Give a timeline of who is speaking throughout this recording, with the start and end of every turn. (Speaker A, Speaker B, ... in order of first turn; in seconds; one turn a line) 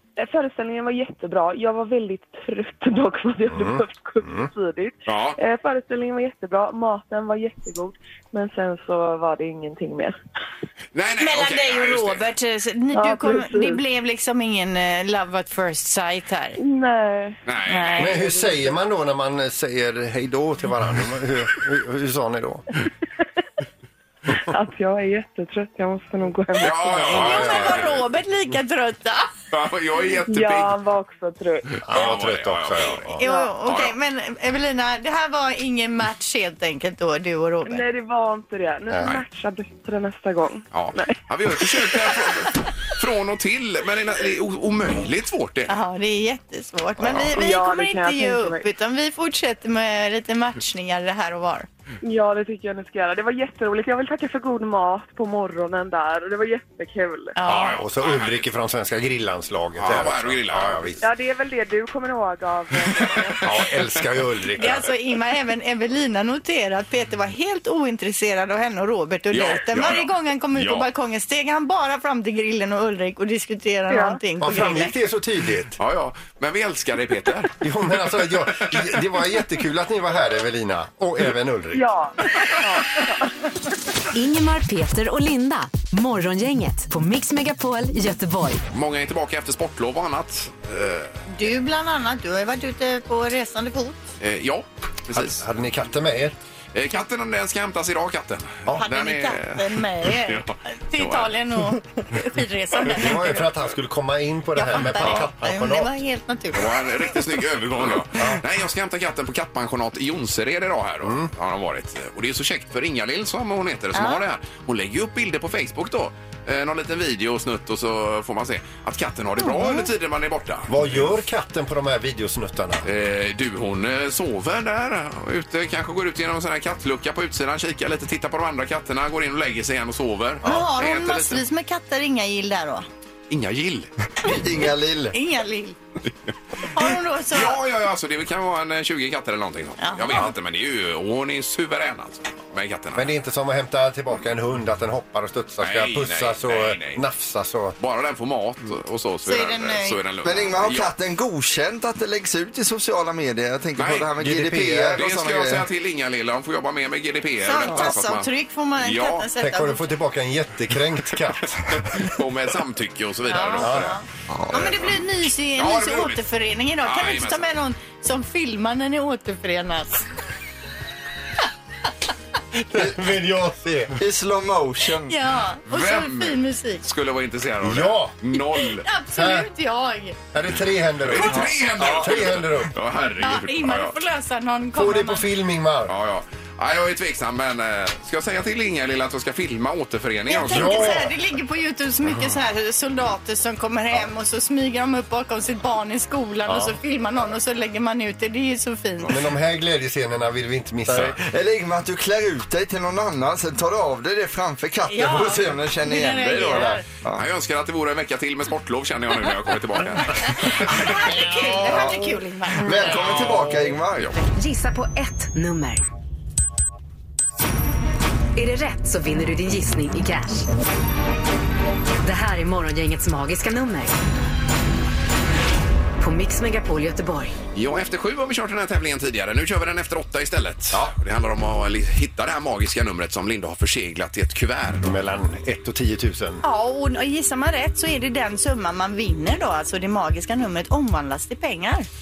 Speaker A: 0.2-10.2
Speaker B: 3.5-4.5
Speaker C: 5.0-5.4
Speaker C: 10.9-12.2
Speaker D: 11.2-16.6
Speaker A: 12.9-13.8
Speaker A: 16.6-17.4
Speaker C: 17.4-18.2
Speaker D: 17.7-18.5
Speaker B: 18.0-22.6
Speaker A: 24.3-27.8
Speaker C: 26.6-28.0
Speaker D: 27.0-29.3
Speaker C: 29.5-30.8
Speaker A: 30.2-31.8
Speaker C: 31.8-33.9
Speaker B: 31.9-33.2
Speaker D: 33.2-37.8
Speaker A: 33.2-33.6
Speaker A: 37.6-42.2
Speaker B: 38.9-39.1
Speaker C: 40.7-45.7
Speaker D: 45.7-51.7
Speaker C: 47.1-47.3
Speaker A: 47.3-48.7
Speaker A: 52.0-57.4
Speaker D: 57.4-57.8
Speaker C: 57.5-58.5
Speaker B: 57.7-61.0
Speaker C: 59.8-61.0
Speaker A: 61.0-63.4
Speaker C: 63.0-63.7
Speaker B: 63.4-64.8
Speaker D: 64.6-74.9
Speaker C: 69.3-70.8
Speaker A: 73.9-74.2
Speaker B: 74.4-75.8
Speaker C: 75.8-77.5
Speaker B: 77.6-81.8
Speaker A: 81.7-83.3
Speaker E: 84.1-88.6
Speaker C: 88.7-91.2
Speaker D: 91.3-94.0
Speaker C: 94.2-95.4
Speaker B: 95.1-96.3
Speaker C: 96.7-101.3
Speaker D: 98.8-103.5
Speaker B: 102.9-105.9
Speaker D: 104.5-106.7
Speaker C: 106.5-120.8
Speaker B: 108.1-108.4
Speaker B: 111.0-111.3
Speaker D: 113.9-114.2
Speaker D: 119.4-119.9
Speaker B: 120.7-122.8
Speaker C: 122.8-131.4
Speaker D: 130.4-132.8
Speaker C: 133.3-133.9
Speaker F: 134.2-135.2
Speaker D: 135.1-135.8
Speaker D: 136.6-137.6
Speaker C: 137.3-143.1
Speaker D: 139.8-140.2
Speaker B: 142.9-147.8
Speaker C: 145.6-147.0
Speaker C: 147.8-150.9
Speaker D: 149.2-150.0
Speaker F: 150.2-155.6
Speaker C: 153.8-154.1
Speaker B: 154.2-155.0
Speaker C: 154.9-159.2
Speaker D: 157.4-159.8
Speaker B: 159.4-162.1
Speaker C: 161.7-163.9
Speaker D: 163.2-170.1
Speaker B: 163.6-163.9
Speaker F: 164.3-164.6
Speaker C: 165.6-166.2
Speaker C: 166.8-167.4
Speaker B: 172.7-173.9
Speaker F: 174.0-175.1
Speaker D: 175.1-176.8
Speaker C: 175.7-178.8
Speaker B: 177.6-178.1
Speaker D: 178.3-180.2
Speaker B: 179.1-179.5
Speaker B: 180.3-182.7
Speaker C: 181.0-183.9
Speaker D: 183.2-185.3
Speaker B: 184.8-185.9
Speaker C: 185.9-191.0
Speaker D: 190.3-199.1
Speaker B: 190.4-191.1
Speaker B: 196.5-196.7
Speaker B: 199.1-201.2
Speaker F: 200.9-207.2
Speaker D: 204.9-206.8
Speaker C: 207.1-210.8
Speaker D: 210.7-212.9
Speaker F: 211.5-214.1
Speaker C: 213.0-214.2
Speaker E: 214.3-215.8
Speaker E: 218.3-220.5
Speaker E: 222.0-223.9
Speaker E: 226.0-227.3
Speaker C: 227.5-234.9
Speaker B: 234.8-236.4
Speaker D: 236.4-241.9